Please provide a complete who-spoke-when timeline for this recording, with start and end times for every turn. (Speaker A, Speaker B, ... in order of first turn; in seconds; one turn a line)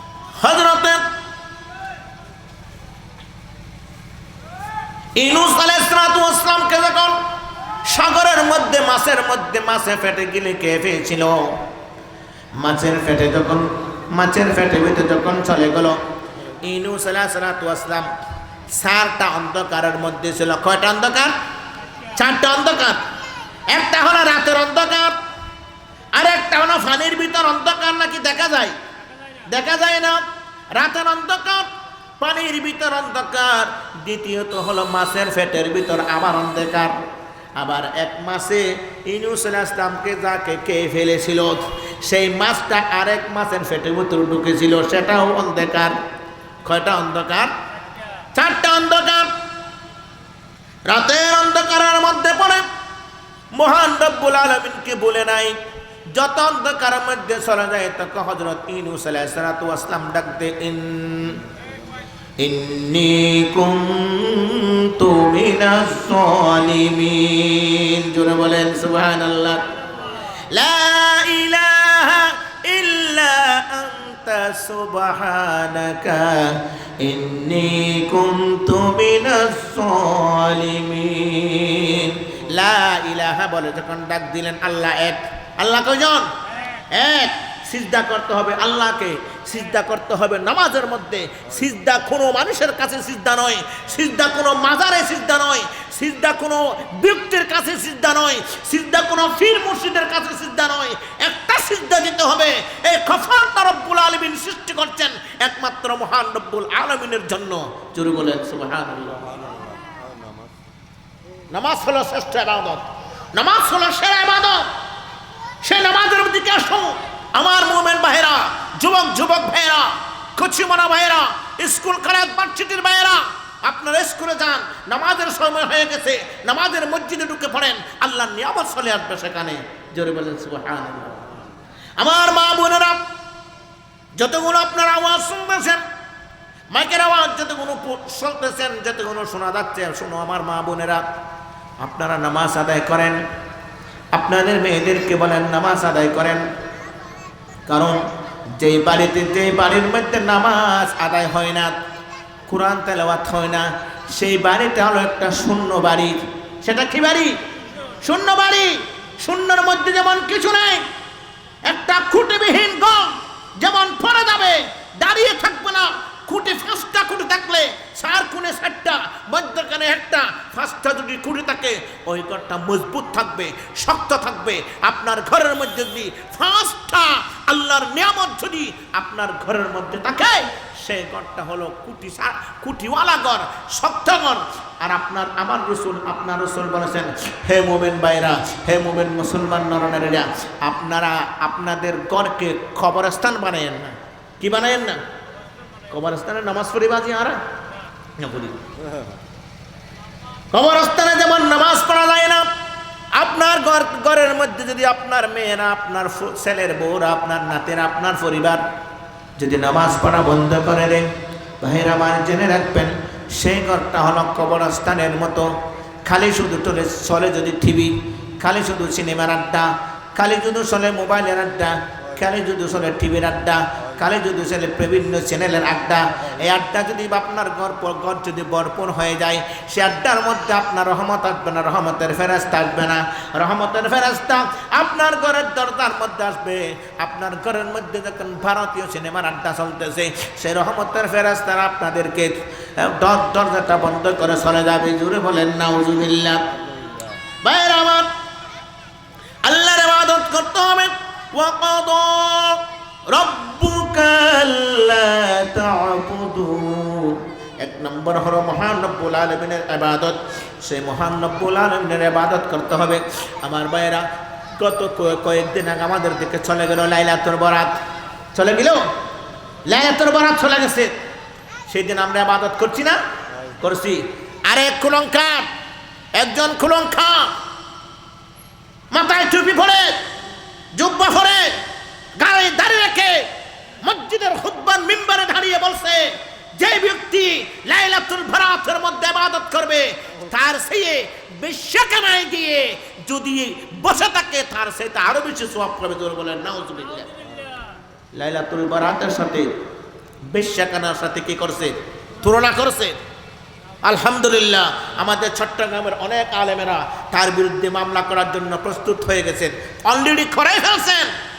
Speaker A: 0.4-1.0
Speaker A: 5.2-7.2
Speaker A: 7.8-11.6
Speaker A: 12.6-16.0
Speaker A: 16.6-18.1
Speaker A: 18.7-21.4
Speaker A: 22.1-23.0
Speaker A: 23.7-25.2
Speaker A: 26.1-28.8
Speaker A: 29.4-30.2
Speaker A: 30.7-31.7
Speaker A: 32.2-37.0
Speaker A: 37.6-46.0
Speaker A: 46.6-47.5
Speaker A: 48.3-49.3
Speaker A: 50.9-52.6
Speaker A: 53.5-55.6
Speaker A: 56.1-61.4
Speaker A: 62.4-69.7
Speaker A: 70.5-86.3
Speaker A: 86.9-109.3
Speaker A: 111.5-114.7
Speaker A: 115.6-131.3
Speaker A: 132.0-133.0
Speaker A: 134.2-135.8
Speaker A: 136.7-141.0
Speaker A: 141.8-143.2
Speaker A: 144.1-146.4
Speaker A: 147.7-148.0
Speaker A: 148.5-151.7
Speaker A: 152.5-157.4
Speaker A: 158.0-160.8
Speaker A: 161.6-195.0
Speaker A: 195.9-197.4
Speaker A: 198.2-198.6
Speaker A: 200.5-202.5
Speaker A: 203.1-208.7
Speaker A: 209.4-246.5
Speaker A: 247.4-248.1
Speaker A: 249.4-264.1
Speaker A: 264.6-267.8
Speaker A: 268.3-268.8
Speaker A: 269.6-270.9
Speaker A: 271.7-273.0
Speaker A: 273.6-275.5
Speaker A: 276.1-277.3
Speaker A: 278.9-279.9
Speaker A: 280.7-281.6
Speaker A: 282.1-283.3
Speaker A: 283.8-297.1
Speaker A: 298.1-299.5
Speaker A: 300.3-302.9
Speaker A: 303.8-311.1